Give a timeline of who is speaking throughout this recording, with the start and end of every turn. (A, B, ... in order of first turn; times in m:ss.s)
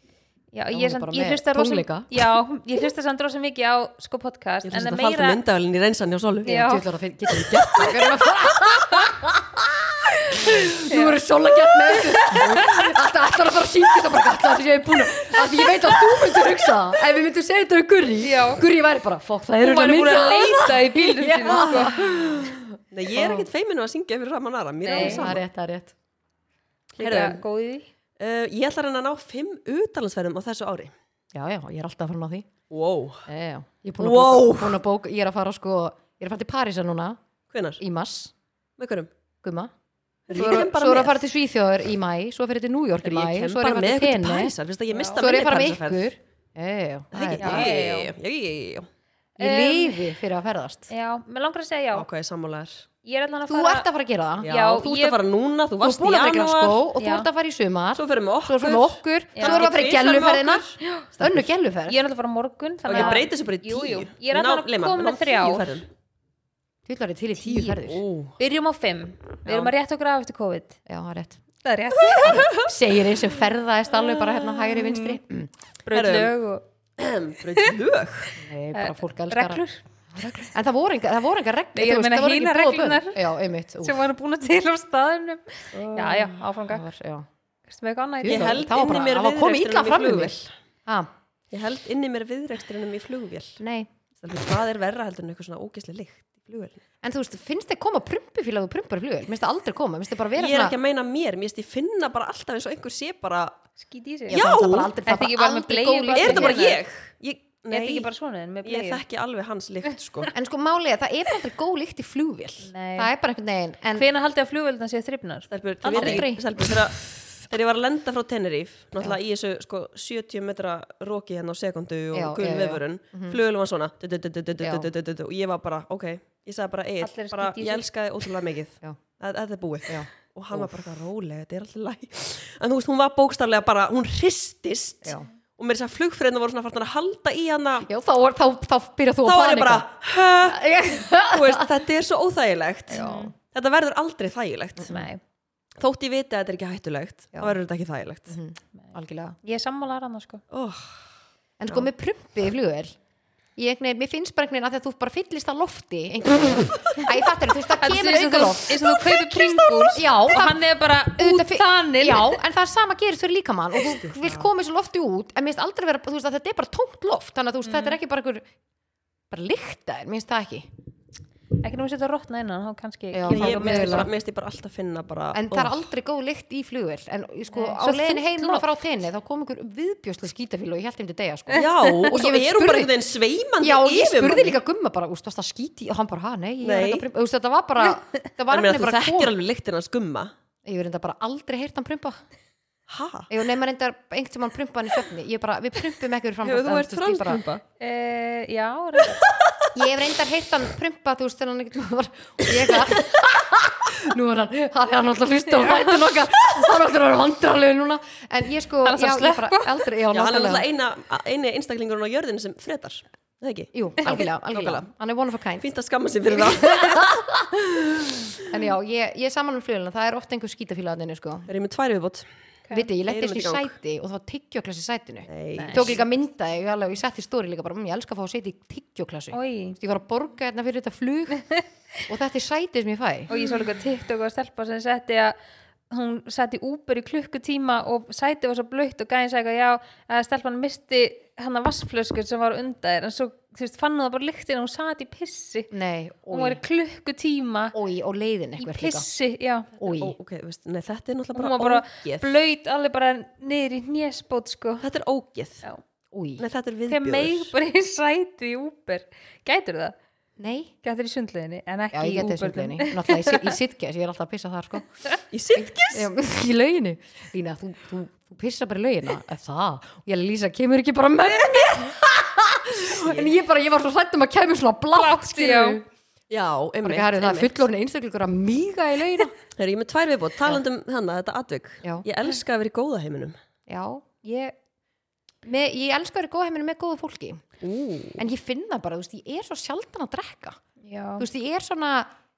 0:00.5-0:05.4 A
0:00.7-0:02.1 B
0:04.6-0:06.7 C
0:06.4-0:06.8 A
0:06.4-0:23.5 B
0:07.5-0:08.1 C
0:10.3-0:11.2 A
0:12.0-0:12.8 A
0:12.4-0:12.7 C
0:18.2-0:18.6 A
0:19.6-0:22.0 A
0:21.4-0:25.4 C
0:24.8-0:25.3 A
0:25.0-0:25.9 B
0:27.0-0:27.4 C
0:27.0-0:27.9 A
0:28.2-0:30.9 C
0:31.3-0:32.5 B
0:32.7-0:33.2 C
0:33.3-0:37.2 B
0:34.0-0:34.8 C
0:37.5-0:37.8 C
0:37.8-0:38.3 B
0:38.8-0:39.1 C
0:39.4-0:39.7 B
0:40.3-0:41.3 C
0:40.3-0:44.6 B
0:43.0-0:46.1 C
0:44.9-0:45.2 A
0:45.2-0:47.7 B
0:47.1-0:48.9 C
0:47.4-0:48.1 A
0:49.4-0:50.1 A
0:49.4-0:50.9 B
0:50.9-0:52.1 A
0:51.9-0:52.9 C
0:53.0-0:53.9 A
0:53.5-0:54.5 B
0:54.4-0:56.8 C
0:54.4-0:55.2 A
0:55.8-1:02.0 B
0:57.0-0:57.3 A
0:58.0-1:01.5 C
0:59.4-0:59.7 A
1:00.8-1:01.1 A
1:01.9-1:05.8 A
1:02.9-1:05.9 C
1:02.9-1:03.2 B
1:06.9-1:08.0 B
1:07.6-1:08.4 C
1:08.4-1:10.8 A
1:09.5-1:09.7 C
1:10.9-1:11.4 B
1:11.6-1:12.6 A
1:12.1-1:12.6 C
1:12.2-1:15.5 B
1:14.0-1:14.9 C
1:15.9-1:16.6 A
1:15.9-1:16.3 C
1:17.0-1:18.4 C
1:18.4-1:19.6 B
1:18.7-1:20.4 A
1:20.2-1:24.1 B
1:21.8-1:23.2 A
1:23.8-1:26.9 A
1:25.7-1:26.4 C
1:26.7-1:27.3 B
1:27.7-1:28.5 A
1:28.2-1:30.4 B
1:28.2-1:30.5 C
1:31.5-1:33.6 C
1:33.6-1:33.9 B
1:34.2-1:36.8 C
1:37.0-1:40.8 B
1:40.4-1:43.6 C
1:43.8-1:44.4 A
1:44.3-1:46.6 B
1:44.3-1:45.0 C
1:45.1-1:46.8 A
1:46.2-1:48.1 C
1:47.7-1:49.0 A
1:48.6-1:50.3 C
1:50.3-1:54.1 B
1:52.6-1:53.1 A
1:54.0-1:56.3 A
1:55.5-2:17.9 C
1:55.9-1:56.7 B
2:02.1-2:03.4 B
2:04.6-2:04.9 B
2:07.0-2:07.9 A
2:09.9-2:10.7 B
2:17.9-2:19.9 B
2:19.2-2:25.0 C
2:20.4-2:21.7 B
2:22.9-2:23.3 A
2:22.9-2:23.3 B
2:24.8-2:25.1 B
2:24.8-2:25.2 A
2:25.8-2:28.4 C
2:28.3-2:29.4 B
2:29.4-2:30.4 A
2:30.5-2:31.0 C
2:31.6-2:33.0 B
2:33.6-2:39.0 B
2:37.8-2:42.4 A
2:39.9-2:40.6 B
2:41.1-2:48.5 B
2:43.9-2:44.5 C
2:47.6-2:48.0 A
2:49.3-2:50.7 B
2:51.6-2:54.1 A
2:53.1-2:54.1 B
2:53.3-2:55.8 C
2:55.3-3:02.9 B
2:57.5-2:58.7 A
3:01.5-3:02.1 A
3:01.6-3:04.6 C
3:03.6-3:09.3 B
3:06.6-3:07.1 C
3:08.5-3:10.3 C
3:10.6-3:12.2 B
3:12.9-3:13.3 C
3:13.3-3:17.4 B
3:16.4-3:17.6 C
3:17.8-3:19.2 A
3:19.8-3:30.7 B
3:25.6-3:25.9 A
3:28.8-3:29.8 A
3:30.1-3:34.8 C
3:33.7-3:35.7 B
3:35.6-3:38.4 C
3:36.3-3:37.5 B
3:38.5-3:41.5 B
3:41.5-3:42.3 C
3:42.7-3:51.5 B
3:43.1-3:43.7 C
3:45.3-3:46.0 C
3:45.6-3:46.0 A
3:49.3-3:49.8 A
3:52.1-3:53.3 B
3:53.3-3:55.4 A
3:55.9-4:05.7 A
4:05.7-4:06.6 B
4:06.3-4:07.8 A
4:07.7-4:09.1 B
4:08.6-4:09.7 A
4:09.8-4:10.2 B
4:09.9-4:12.3 C
4:11.4-4:14.9 A
4:14.8-4:15.6 C
4:16.1-4:16.4 B
4:16.4-4:17.5 C
4:16.9-4:20.0 A
4:20.4-4:20.7 B
4:20.8-4:23.6 A
4:21.9-4:24.9 B
4:25.3-4:26.1 C
4:25.6-4:35.9 B
4:32.9-4:33.3 C
4:34.9-4:35.8 A
4:36.3-4:37.6 C
4:36.8-4:39.4 B
4:39.6-4:43.4 C
4:43.7-4:44.0 B
4:44.2-4:44.5 A
4:45.4-4:47.5 B
4:47.6-4:48.2 C
4:48.2-4:50.6 B
4:50.8-4:51.3 A
4:51.2-4:52.1 B